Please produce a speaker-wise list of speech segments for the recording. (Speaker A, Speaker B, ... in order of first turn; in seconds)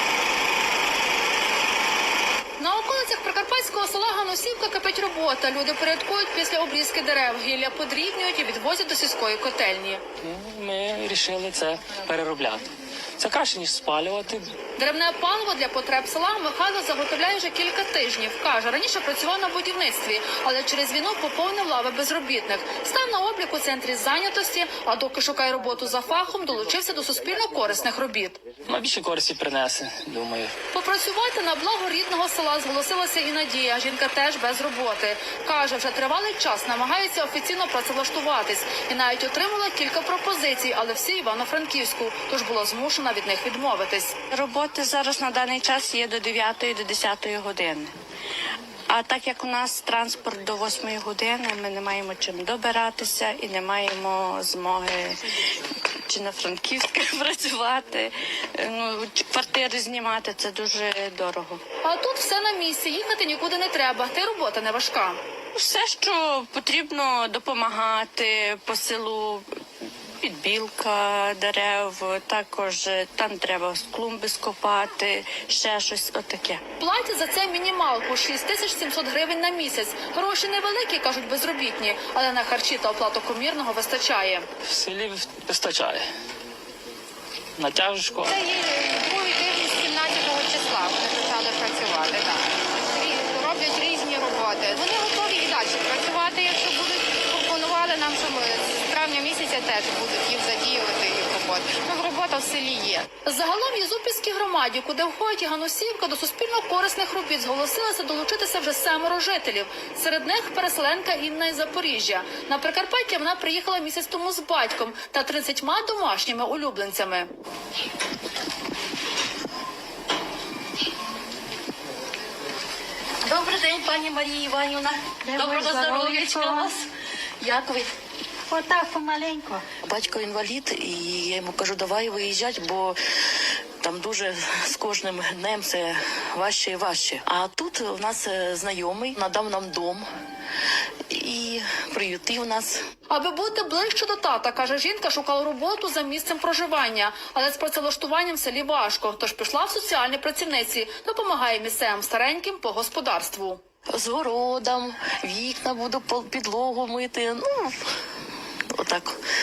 Speaker A: 2.6-10.0, 14.8-28.4, 30.7-44.1, 61.8-65.2, 76.8-84.5, 103.2-117.3, 143.1-153.6
Speaker B: 10.2-14.5, 28.6-30.5, 84.7-86.0, 87.6-88.3
Speaker C: 44.3-47.9, 48.9-55.2, 56.0-61.6, 65.5-69.5, 70.2-76.6
Speaker D: 88.3-103.1
Speaker E: 123.2-126.8, 127.4-127.9, 129.8-133.0, 133.8-140.1, 141.1-142.8, 153.9-157.8, 158.7-159.2
Speaker F: 125.2-126.8, 128.5-129.7